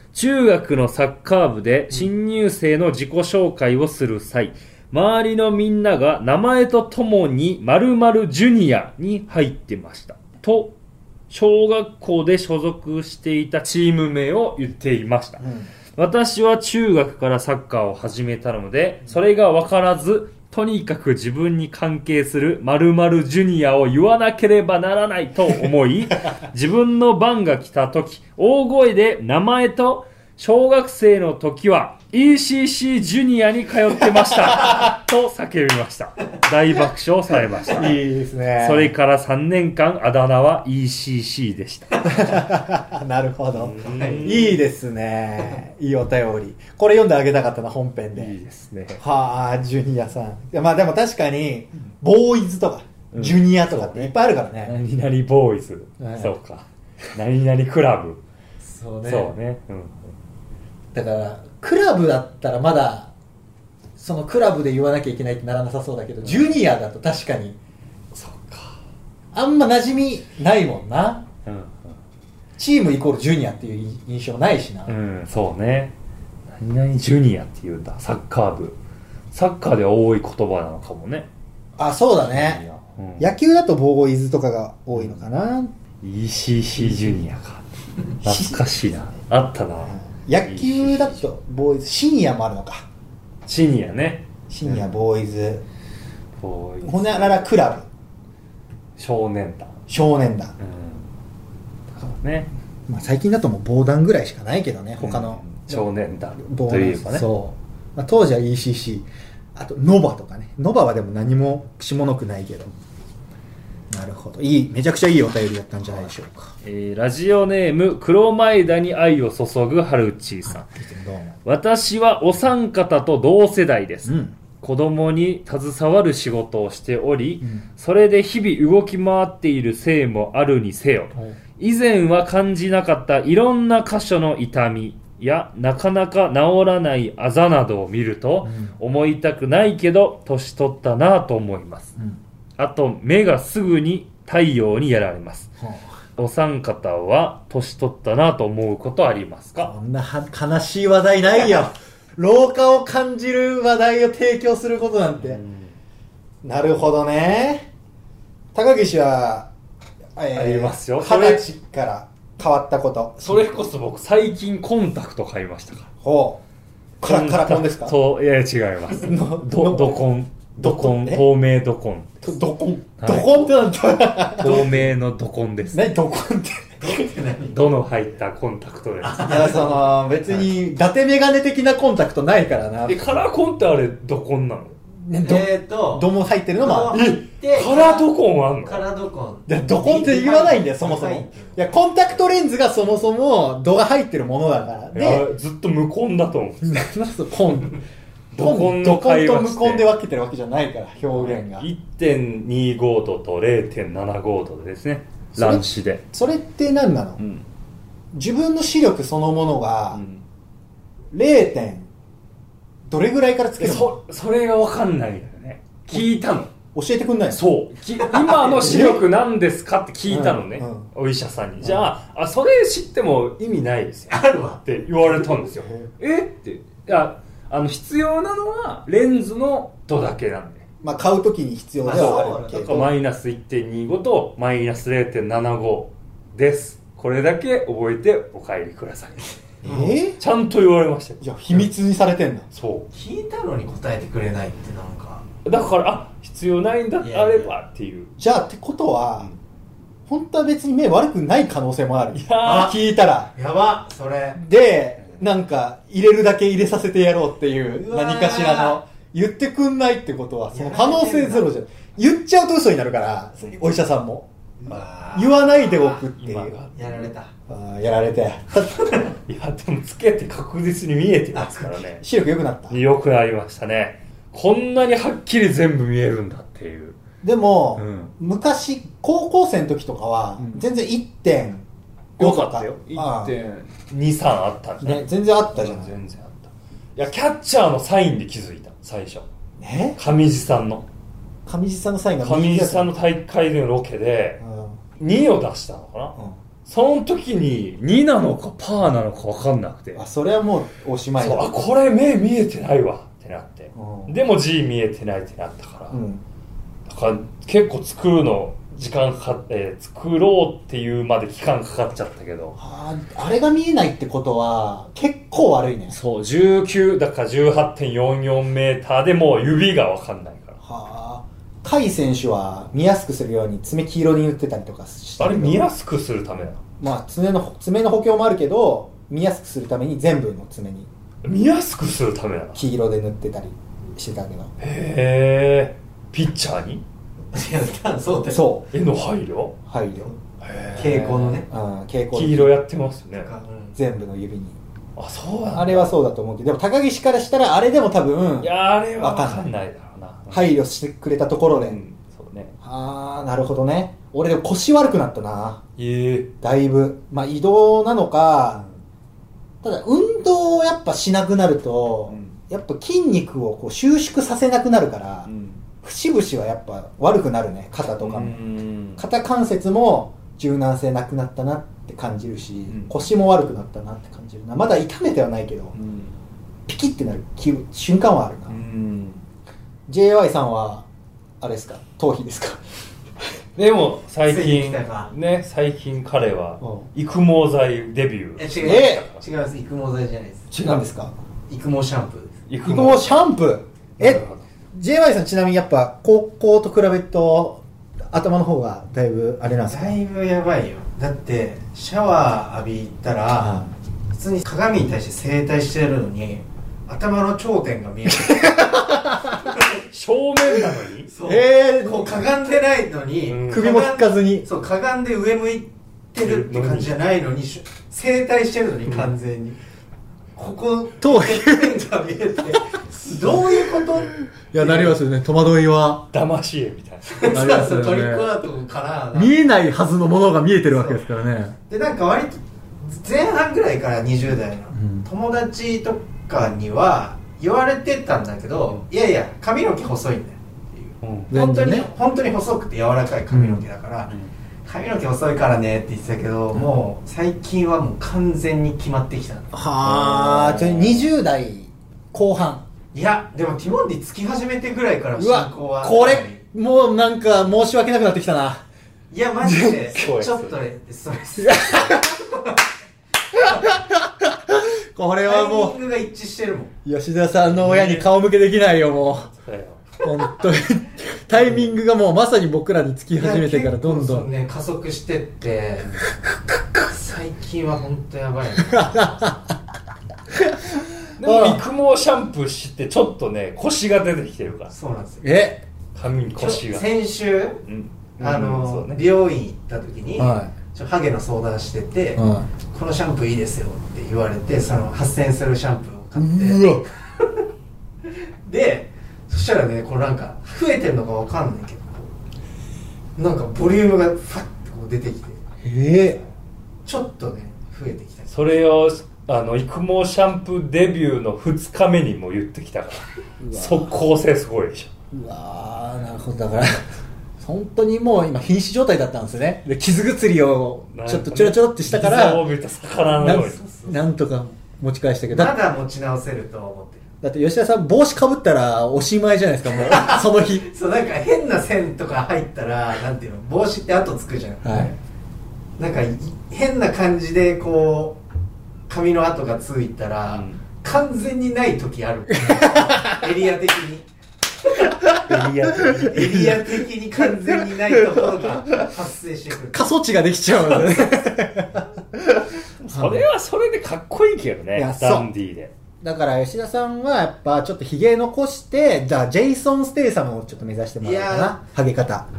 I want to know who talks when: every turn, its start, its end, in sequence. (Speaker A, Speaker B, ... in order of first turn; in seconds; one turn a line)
Speaker A: 0.1-10.7
Speaker A: 11.3-38.0
Speaker B: 15.4-15.7
Speaker B: 34.1-34.8
Speaker B: 37.7-38.9
Speaker A: 38.6-42.0
Speaker B: 42.0-48.3
Speaker A: 43.5-44.6
Speaker C: 43.9-44.2
Speaker A: 48.1-49.0
Speaker B: 49.0-54.8
Speaker A: 53.1-58.2
Speaker B: 56.0-56.4
Speaker C: 58.8-59.2
Speaker B: 58.8-59.3
Speaker A: 59.0-60.0
Speaker B: 60.9-63.1
Speaker B: 64.0-67.6
Speaker A: 66.2-66.6
Speaker A: 68.1-68.8
Speaker B: 69.3-71.2
Speaker A: 71.4-72.0
Speaker B: 72.6-75.0
Speaker A: 74.8-75.9
Speaker A: 76.5-78.8
Speaker A: 79.3-81.3
Speaker B: 81.8-82.7
Speaker A: 82.2-83.3
Speaker B: 83.2-85.7
Speaker A: 84.9-85.2
Speaker A: 86.0-87.7
Speaker A: 88.2-91.3
Speaker B: 88.2-88.7
Speaker B: 89.8-92.8
Speaker A: 93.5-94.8
Speaker B: 94.5-95.6
Speaker A: 96.4-97.5
Speaker B: 96.8-97.8
Speaker A: 99.0-99.8
Speaker B: 99.9-100.5
Speaker A: 100.6-101.1
Speaker A: 101.9-102.5
Speaker B: 102.9-112.7
Speaker A: 105.0-107.3
Speaker B: 113.9-116.5
Speaker A: 116.6-120.7
Speaker B: 120.4-121.3
Speaker A: 121.4-141.9
Speaker B: 124.0-124.4
Speaker B: 138.4-138.7
Speaker A: 142.6-145.5
Speaker A: 146.2-149.7
Speaker B: 149.6-155.4
Speaker A: 155.2-155.7
Speaker B: 156.4-157.7
Speaker B: 158.5-159.5
Speaker B: 160.2-163.6
Speaker A: 160.3-161.5
Speaker A: 163.2-165.9
Speaker B: 166.0-166.4
Speaker B: 167.0-168.0
Speaker A: 167.0-172.3
Speaker B: 168.9-171.3
Speaker B: 172.2-174.9
Speaker A: 173.0-173.5
Speaker A: 174.3-175.9
Speaker B: 175.7-176.8
Speaker C: 176.8-177.6
Speaker A: 177.5-179.5
Speaker C: 179.0-180.0
Speaker B: 179.1-183.2
Speaker A: 182.8-184.8
Speaker B: 185.0-187.0
Speaker C: 185.2-188.1
Speaker A: 186.9-188.8
Speaker C: 188.6-191.7
Speaker B: 189.5-195.3
Speaker A: 194.9-196.8
Speaker B: 196.6-197.8
Speaker A: 198.3-199.9
Speaker B: 198.4-201.7
Speaker A: 201.1-206.0
Speaker B: 205.3-207.2
Speaker A: 207.2-207.4
Speaker B: 208.1-210.0
Speaker A: 209.9-210.2
Speaker B: 211.1-211.9
Speaker B: 212.9-214.0
Speaker A: 213.6-216.5
Speaker B: 215.9-217.4
Speaker A: 217.3-230.6
Speaker C: 218.0-218.3
Speaker B: 218.2-219.1
Speaker B: 220.1-220.9
Speaker B: 221.6-221.9
Speaker C: 224.1-224.7
Speaker B: 225.4-225.9
Speaker B: 230.8-232.9
Speaker C: 231.8-232.8
Speaker A: 231.9-239.4
Speaker C: 239.6-240.0
Speaker B: 239.6-240.2
Speaker A: 240.1-241.7
Speaker B: 241.2-242.5
Speaker A: 242.5-242.8
Speaker C: 242.9-245.2
Speaker A: 245.4-248.1
Speaker C: 247.0-247.5
Speaker B: 248.2-249.3
Speaker B: 250.1-253.3
Speaker A: 252.1-252.7
Speaker C: 252.4-252.8
Speaker C: 253.3-254.4
Speaker B: 254.3-264.3
Speaker C: 257.8-258.8
Speaker C: 260.5-261.5
Speaker C: 264.6-266.1
Speaker B: 265.1-266.6
Speaker A: 266.1-267.1
Speaker C: 266.7-267.3
Speaker B: 267.5-269.1
Speaker A: 269.2-272.0
Speaker C: 271.3-271.8
Speaker B: 271.9-272.8
Speaker A: 272.7-277.0
Speaker B: 277.2-281.6
Speaker A: 277.8-278.1
Speaker B: 282.2-283.4
Speaker A: 282.2-289.3
Speaker B: 284.8-286.0
Speaker B: 289.6-290.0
Speaker A: 290.0-290.9
Speaker B: 291.5-292.9
Speaker A: 292.2-294.4
Speaker B: 294.4-294.8
Speaker A: 295.0-296.1
Speaker A: 296.6-300.0
Speaker B: 299.9-301.5
Speaker A: 301.2-306.0
Speaker B: 303.8-304.2
Speaker B: 305.9-306.2
Speaker A: 306.9-312.6
Speaker B: 312.6-316.0
Speaker A: 315.9-320.6
Speaker B: 320.6-325.7
Speaker A: 325.2-326.6
Speaker B: 326.8-330.9
Speaker A: 331.2-332.6
Speaker B: 332.5-334.5
Speaker A: 334.6-336.8
Speaker C: 337.3-338.5
Speaker B: 338.3-338.7
Speaker A: 338.7-339.6
Speaker B: 339.7-340.1
Speaker A: 340.4-341.2
Speaker C: 340.8-341.5
Speaker B: 340.8-342.6
Speaker A: 342.1-343.3
Speaker C: 343.1-343.8
Speaker B: 343.8-344.6
Speaker A: 345.0-345.9
Speaker B: 345.5-349.6
Speaker A: 348.4-350.5
Speaker B: 350.3-351.8
Speaker A: 351.5-352.5
Speaker B: 352.6-355.6
Speaker A: 355.8-356.3
Speaker B: 356.4-358.6
Speaker A: 358.5-358.8
Speaker B: 359.6-365.3
Speaker A: 362.1-362.4
Speaker A: 365.2-365.6
Speaker B: 365.8-368.4
Speaker A: 368.0-369.0
Speaker B: 368.9-375.8
Speaker A: 372.7-373.0
Speaker A: 375.7-376.1
Speaker B: 376.7-378.6
Speaker A: 378.5-379.2
Speaker B: 379.9-380.9
Speaker B: 381.4-382.6
Speaker A: 383.6-389.2
Speaker C: 384.2-385.1
Speaker B: 386.6-386.9
Speaker C: 388.4-390.7
Speaker B: 388.6-389.1
Speaker B: 390.5-391.1
Speaker A: 390.6-390.9
Speaker C: 391.5-392.3
Speaker A: 392.5-393.2
Speaker B: 392.6-400.0
Speaker A: 394.0-394.4
Speaker C: 399.7-409.8
Speaker B: 403.4-403.7
Speaker B: 408.1-409.5
Speaker A: 409.7-411.1
Speaker C: 411.0-419.6
Speaker B: 411.2-412.3
Speaker A: 413.3-413.7
Speaker B: 413.5-414.5
Speaker A: 416.2-417.0
Speaker C: 420.4-425.0
Speaker B: 421.0-421.8
Speaker B: 424.3-426.1
Speaker A: 426.1-427.3
Speaker C: 427.0-429.4
Speaker B: 427.3-428.4
Speaker B: 429.1-431.6
Speaker C: 430.6-431.1
Speaker C: 431.7-444.1
Speaker B: 434.7-435.1
Speaker A: 441.0-441.4
Speaker B: 441.3-441.9
Speaker B: 443.3-443.7
Speaker C: 444.6-449.6
Speaker B: 449.5-452.6
Speaker A: 449.8-451.1
Speaker C: 452.9-456.4
Speaker B: 455.2-458.6
Speaker C: 459.1-462.6
Speaker A: 459.4-460.5
Speaker B: 461.4-462.2
Speaker B: 463.6-465.8
Speaker C: 465.2-466.7
Speaker B: 466.8-469.3
Speaker C: 467.5-468.1
Speaker A: 469.2-469.8
Speaker B: 470.0-474.3
Speaker C: 470.0-470.3
Speaker C: 473.1-475.9
Speaker C: 476.8-479.4
Speaker B: 478.6-479.3
Speaker B: 480.3-481.6
Speaker A: 481.2-484.7
Speaker C: 484.7-485.2
Speaker B: 485.2-485.6
Speaker A: 485.9-486.9
Speaker C: 486.3-487.6
Speaker A: 487.6-489.0
Speaker C: 488.2-497.4
Speaker B: 490.2-490.6
Speaker B: 492.1-492.5
Speaker B: 496.1-496.9
Speaker C: 498.0-502.1
Speaker C: 503.1-505.4
Speaker B: 505.6-506.2
Speaker C: 506.9-508.3
Speaker A: 508.3-514.9
Speaker B: 513.4-514.0
Speaker B: 515.1-516.7
Speaker B: 517.4-522.5
Speaker A: 520.9-523.6
Speaker C: 523.0-524.0
Speaker B: 523.2-525.5
Speaker C: 525.3-527.0
Speaker B: 527.2-530.7
Speaker C: 529.7-534.9
Speaker B: 534.6-534.9
Speaker C: 535.8-538.2
Speaker C: 538.9-544.1
Speaker A: 540.3-540.6
Speaker B: 542.5-543.2
Speaker C: 544.6-545.1
Speaker A: 545.2-546.3
Speaker B: 545.3-546.7
Speaker C: 546.0-549.9
Speaker B: 547.3-548.7
Speaker B: 549.7-553.2
Speaker A: 552.8-555.7
Speaker B: 554.7-555.3
Speaker B: 556.0-562.3
Speaker C: 561.0-561.6